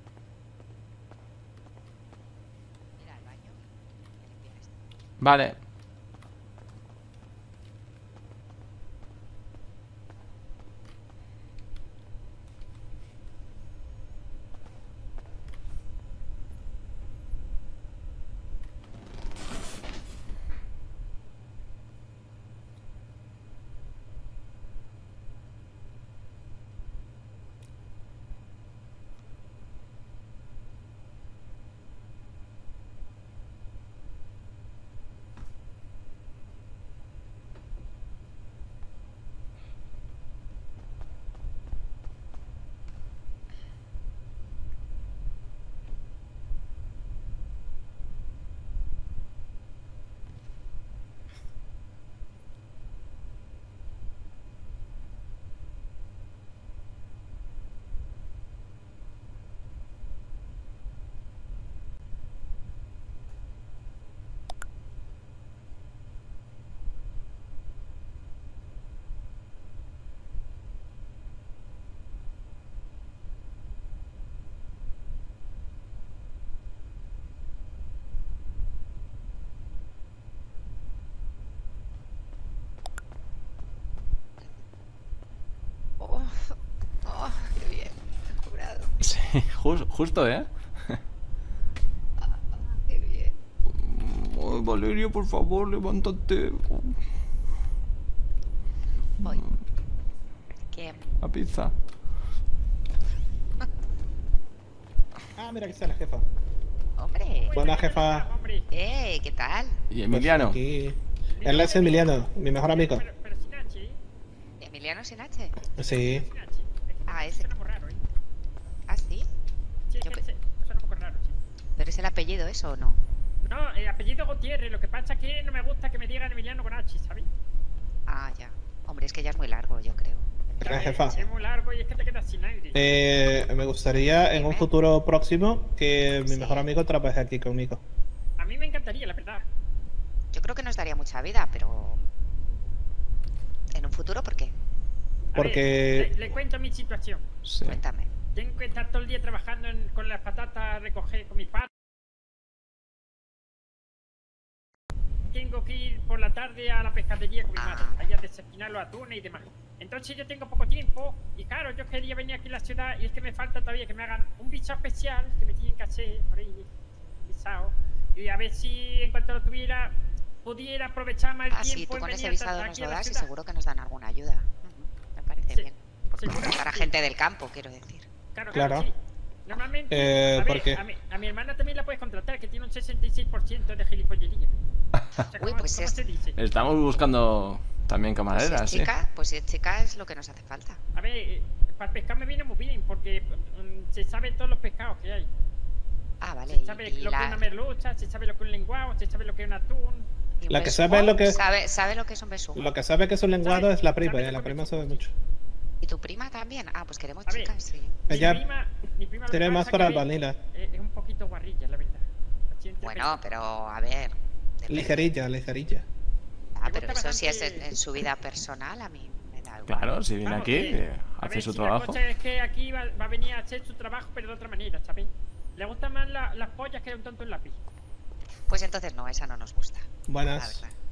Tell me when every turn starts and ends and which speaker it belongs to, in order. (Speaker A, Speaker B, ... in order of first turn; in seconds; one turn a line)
Speaker A: 3.0-4.9
Speaker B: 5.2-5.6
Speaker A: 86.0-89.0
Speaker B: 89.0-91.0
Speaker A: 92.2-93.3
Speaker B: 93.7-97.0
Speaker A: 99.2-99.5
Speaker B: 99.2-99.5
Speaker A: 100.7-101.1
Speaker B: 101.2-101.7
Speaker C: 105.4-106.2
Speaker A: 107.0-107.6
Speaker D: 107.4-108.7
Speaker C: 107.5-108.3
Speaker A: 108.7-109.8
Speaker B: 109.9-110.6
Speaker C: 110.1-113.0
Speaker D: 111.4-114.0
Speaker A: 114.6-115.6
Speaker C: 115.8-116.3
Speaker D: 115.9-118.0
Speaker A: 117.1-117.5
Speaker A: 118.9-119.3
Speaker D: 119.9-121.4
Speaker A: 121.8-123.0
Speaker D: 123.4-127.3
Speaker A: 128.1-131.3
Speaker C: 130.6-131.2
Speaker D: 130.6-132.9
Speaker C: 132.7-137.8
Speaker A: 134.3-134.7
Speaker A: 136.2-136.7
Speaker D: 138.4-139.4
Speaker A: 140.3-142.0
Speaker A: 143.7-144.5
Speaker D: 145.3-147.2
Speaker C: 145.4-146.4
Speaker B: 147.4-147.8
Speaker A: 147.7-148.1
Speaker D: 148.3-151.7
Speaker D: 155.3-166.7
Speaker A: 157.6-158.0
Speaker D: 167.2-173.3
Speaker A: 171.5-178.1
Speaker D: 175.5-176.9
Speaker D: 178.3-178.9
Speaker C: 178.5-178.9
Speaker D: 179.5-184.5
Speaker C: 179.9-180.8
Speaker D: 185.2-186.4
Speaker A: 185.4-186.0
Speaker B: 186.4-188.9
Speaker A: 188.3-190.8
Speaker D: 190.9-195.3
Speaker A: 196.2-197.4
Speaker D: 196.5-200.1
Speaker A: 200.4-202.7
Speaker C: 200.5-201.4
Speaker C: 202.6-205.1
Speaker D: 203.4-205.0
Speaker A: 205.8-208.0
Speaker D: 207.3-207.5
Speaker C: 208.1-208.4
Speaker D: 208.1-213.2
Speaker C: 209.3-210.4
Speaker A: 212.8-215.0
Speaker C: 214.7-215.9
Speaker A: 216.6-220.0
Speaker D: 216.7-217.7
Speaker B: 219.7-222.0
Speaker D: 220.2-227.6
Speaker A: 228.5-230.8
Speaker C: 230.1-230.7